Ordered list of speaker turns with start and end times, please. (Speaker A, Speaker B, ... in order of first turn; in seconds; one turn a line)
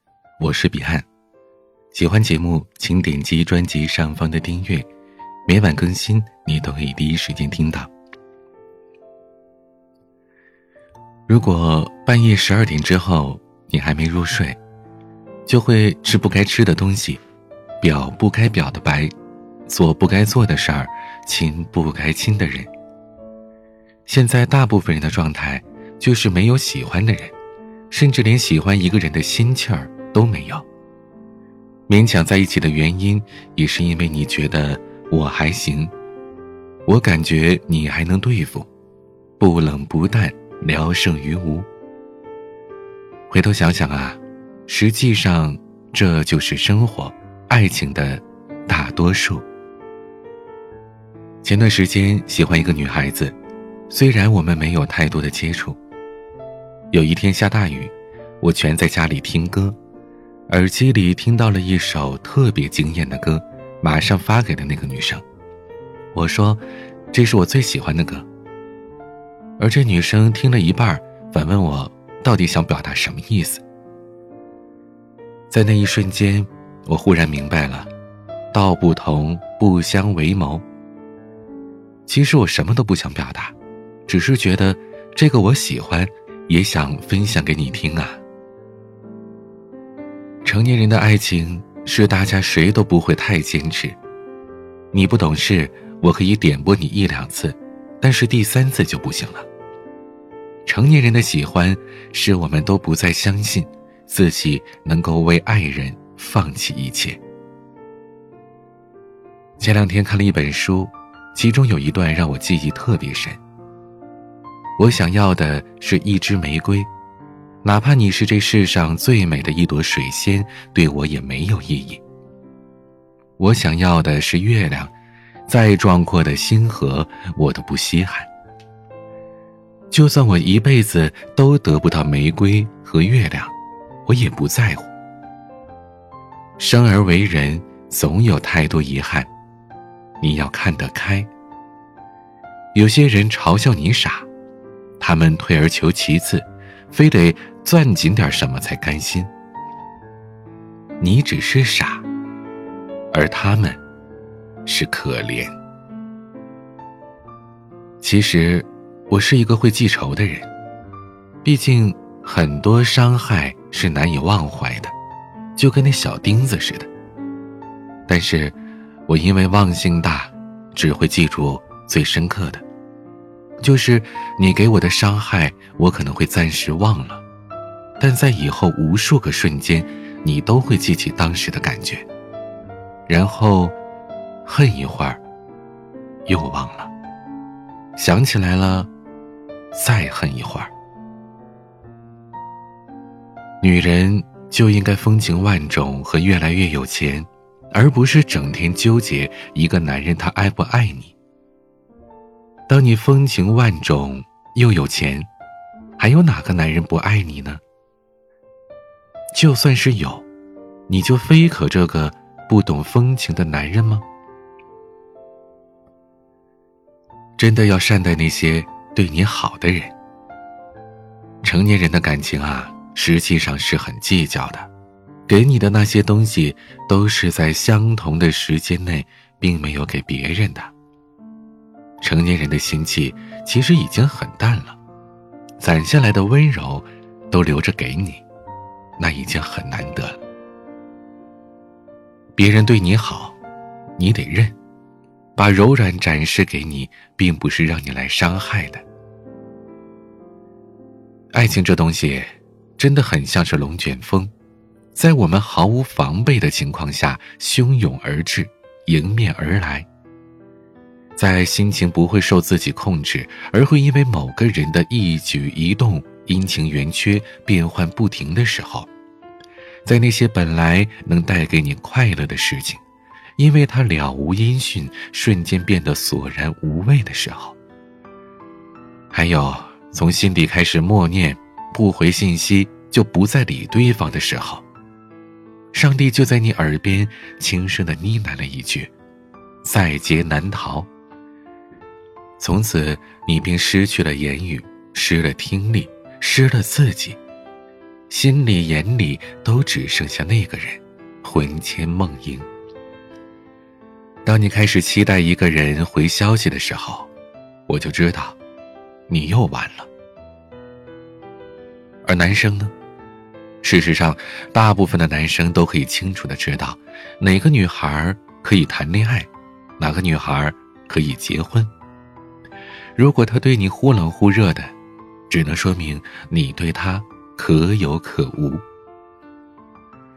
Speaker A: 0.4-1.1
Speaker A: 1.9-4.9
Speaker A: 5.5-7.9
Speaker A: 11.3-14.6
Speaker A: 15.5-17.2
Speaker A: 17.8-19.1
Speaker A: 19.7-22.7
Speaker A: 24.1-27.3
Speaker A: 27.9-30.6
Speaker A: 31.9-35.9
Speaker A: 36.9-38.7
Speaker A: 39.4-41.7
Speaker A: 43.3-49.4
Speaker A: 51.4-53.3
Speaker A: 53.9-55.8
Speaker A: 56.9-59.8
Speaker A: 60.5-65.2
Speaker A: 66.1-68.3
Speaker A: 69.6-73.6
Speaker A: 75.5-77.9
Speaker A: 78.5-80.6
Speaker A: 82.1-83.5
Speaker A: 84.1-88.2
Speaker A: 90.4-94.0
Speaker A: 94.9-99.5
Speaker A: 100.7-107.2
Speaker A: 109.6-113.4
Speaker A: 114.8-116.9
Speaker A: 117.6-122.0
Speaker A: 123.4-124.9
Speaker A: 125.5-128.3
Speaker A: 129.9-133.5
Speaker A: 134.1-134.9
Speaker A: 136.6-139.3
Speaker A: 140.2-141.3
Speaker A: 142.7-144.3
Speaker A: 145.0-149.3
Speaker A: 151.0-152.0
Speaker A: 153.1-153.8
Speaker A: 154.6-155.6
Speaker A: 158.0-160.5
Speaker A: 161.4-164.9
Speaker A: 165.6-166.9
Speaker A: 168.1-168.6
Speaker A: 169.1-172.6
Speaker A: 173.6-177.2
Speaker A: 178.0-182.0
Speaker A: 183.1-183.7
Speaker A: 184.4-185.2
Speaker A: 186.3-186.9
Speaker A: 188.0-188.9
Speaker A: 189.7-190.7
Speaker A: 193.6-201.1
Speaker A: 202.7-205.3
Speaker A: 206.0-207.6
Speaker A: 209.3-210.2
Speaker A: 210.9-214.0
Speaker A: 217.4-219.9
Speaker A: 221.4-224.7
Speaker A: 225.3-230.7
Speaker A: 232.0-234.8
Speaker A: 235.6-238.2
Speaker A: 239.0-240.2
Speaker A: 242.3-243.4
Speaker A: 244.0-244.5
Speaker A: 245.3-248.8
Speaker A: 251.3-254.3
Speaker A: 254.9-259.9
Speaker A: 261.2-268.9
Speaker A: 269.9-272.8
Speaker A: 273.4-277.6
Speaker A: 279.1-284.6
Speaker A: 285.7-288.9
Speaker A: 289.6-290.9
Speaker A: 292.4-297.2
Speaker A: 298.1-302.5
Speaker A: 304.2-307.1
Speaker A: 307.7-308.4
Speaker A: 309.1-309.9
Speaker A: 312.0-312.7
Speaker A: 313.6-321.7
Speaker A: 322.9-324.7
Speaker A: 325.3-328.6